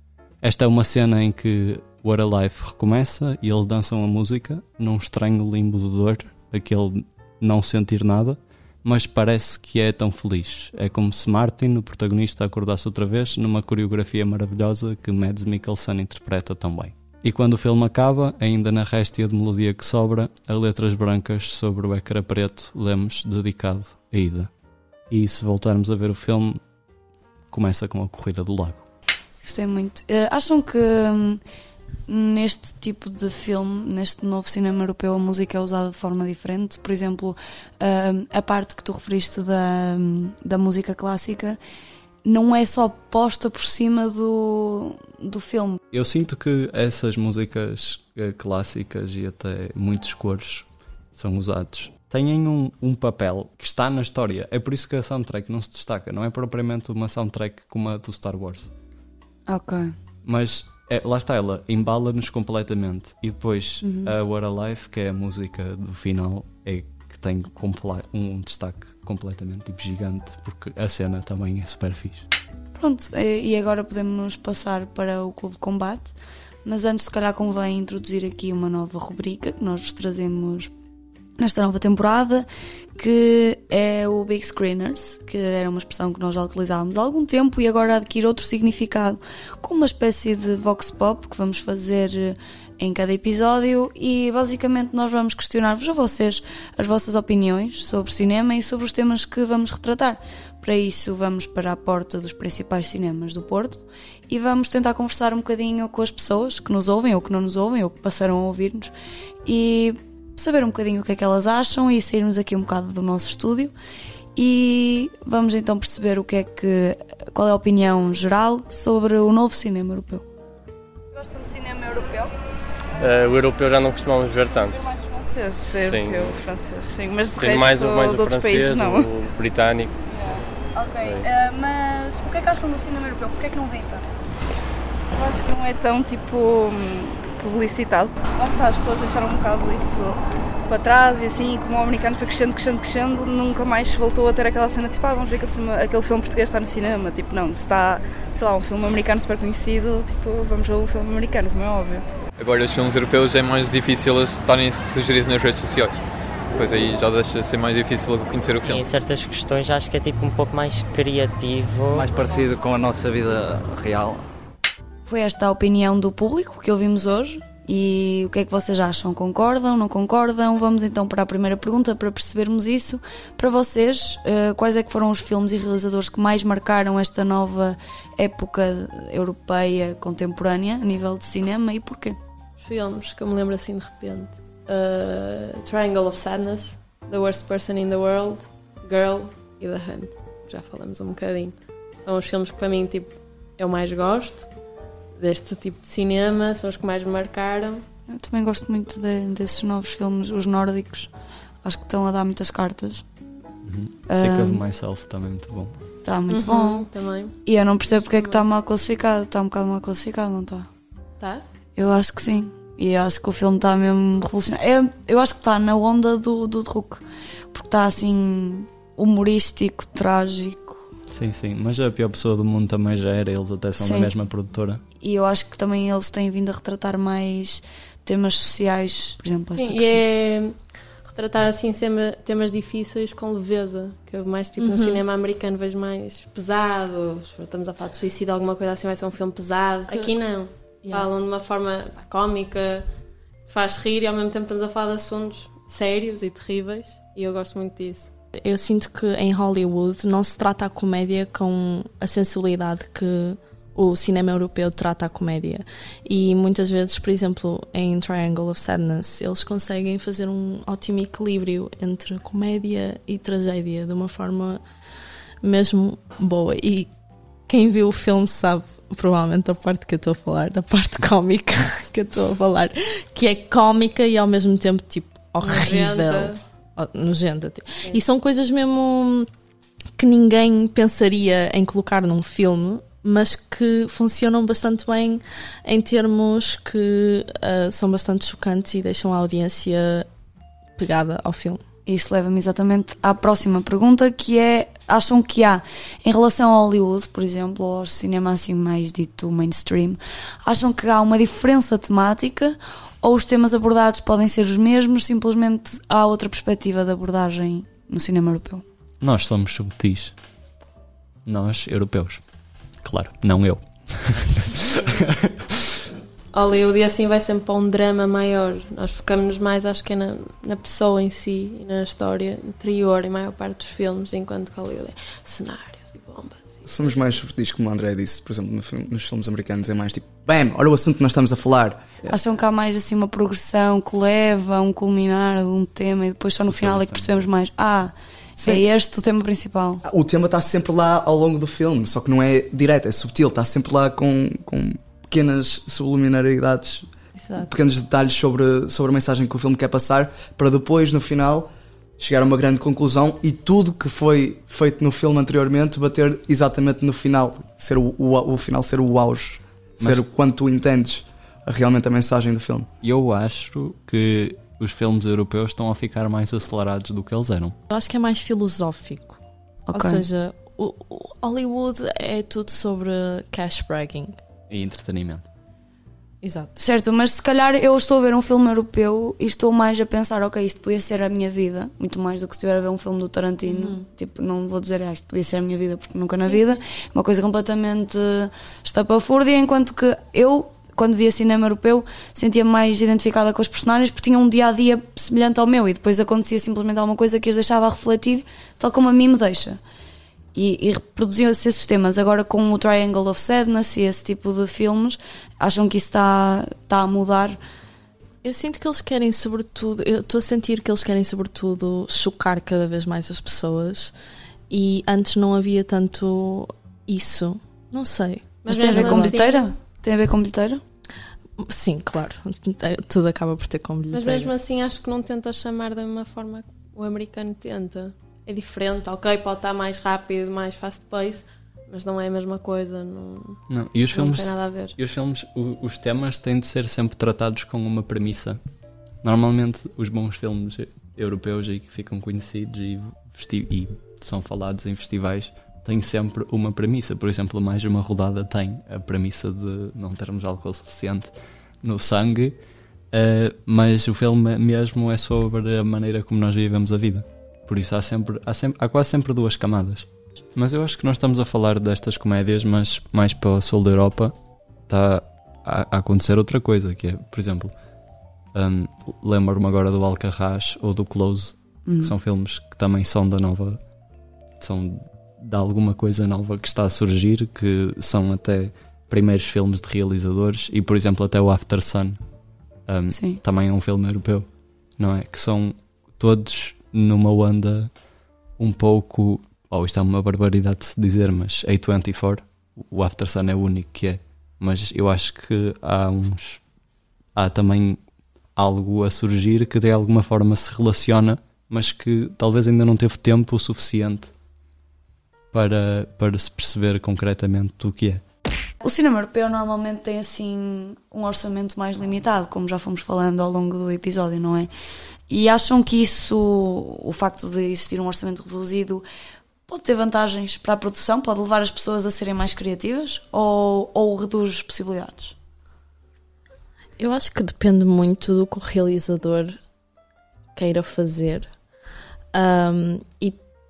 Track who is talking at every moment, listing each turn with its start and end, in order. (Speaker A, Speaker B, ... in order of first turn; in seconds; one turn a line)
Speaker A: 0.4-24.5
Speaker A: 25.1-26.6
Speaker A: 27.5-28.9
Speaker B: 29.4-31.4
Speaker B: 32.1-41.6
Speaker B: 42.2-45.8
Speaker A: 45.9-58.7
Speaker B: 59.5-59.9
Speaker A: 60.2-72.3
Speaker B: 63.8-64.1
Speaker B: 72.7-76.1
Speaker B: 76.6-80.7
Speaker B: 81.4-108.9
Speaker B: 109.4-113.7
Speaker B: 114.3-120.2
Speaker C: 121.1-122.3
Speaker D: 123.0-124.9
Speaker C: 124.7-129.1
Speaker D: 125.8-126.4
Speaker D: 127.3-129.9
Speaker C: 130.1-134.2
Speaker C: 135.1-152.0
Speaker E: 152.4-156.0
Speaker E: 156.5-158.9
Speaker F: 158.6-162.1
Speaker G: 161.9-164.3
Speaker B: 165.0-182.2
Speaker H: 182.6-194.5
Speaker H: 195.2-197.8
Speaker B: 198.1-201.1
Speaker B: 201.6-203.0
Speaker A: 203.6-205.8
Speaker B: 204.1-204.6
Speaker B: 206.0-206.9
Speaker H: 206.3-207.3
Speaker B: 207.4-210.7
Speaker H: 207.9-208.4
Speaker H: 211.2-211.4
Speaker B: 211.7-220.8
Speaker A: 221.1-224.8
Speaker B: 223.8-224.1
Speaker B: 225.0-230.0
Speaker H: 229.5-242.9
Speaker I: 234.6-235.0
Speaker H: 243.4-248.1
Speaker I: 248.4-264.6
Speaker I: 265.4-266.9
Speaker I: 267.5-279.3
Speaker H: 275.4-276.4
Speaker I: 280.0-290.1
Speaker I: 290.8-291.6
Speaker B: 291.9-308.6
Speaker A: 309.0-310.1
Speaker A: 311.2-312.2
Speaker A: 312.8-315.4
Speaker H: 316.3-326.6
Speaker J: 326.6-332.1
Speaker B: 332.1-339.8
Speaker A: 336.4-337.3
Speaker J: 338.4-338.6
Speaker J: 339.8-346.9
Speaker J: 347.4-362.7
Speaker A: 362.8-367.6
Speaker I: 367.7-369.2
Speaker B: 369.7-370.0
Speaker I: 369.7-374.2
Speaker A: 374.5-375.2
Speaker I: 376.2-376.5
Speaker B: 376.6-399.6
Speaker I: 383.4-383.8
Speaker B: 400.3-407.4
Speaker I: 408.2-413.9
Speaker I: 414.5-419.1
Speaker H: 418.4-419.5
Speaker B: 418.5-420.6
Speaker I: 421.4-424.3
Speaker H: 423.9-433.4
Speaker A: 433.5-438.4
Speaker H: 433.9-434.7
Speaker A: 439.0-451.1
Speaker A: 451.6-452.4
Speaker A: 452.9-464.1
Speaker A: 464.7-467.5
Speaker A: 468.3-473.6
Speaker B: 471.7-471.9
Speaker A: 474.4-482.0
Speaker A: 482.7-484.3
Speaker B: 482.9-483.2
Speaker A: 484.8-487.7
Speaker A: 488.4-496.4
Speaker A: 497.1-497.8
Speaker A: 498.4-504.1
Speaker A: 505.3-508.0
Speaker B: 508.6-514.5
Speaker B: 515.1-518.8
Speaker B: 519.5-525.1
Speaker I: 526.8-529.4
Speaker I: 530.3-531.3
Speaker I: 532.1-533.2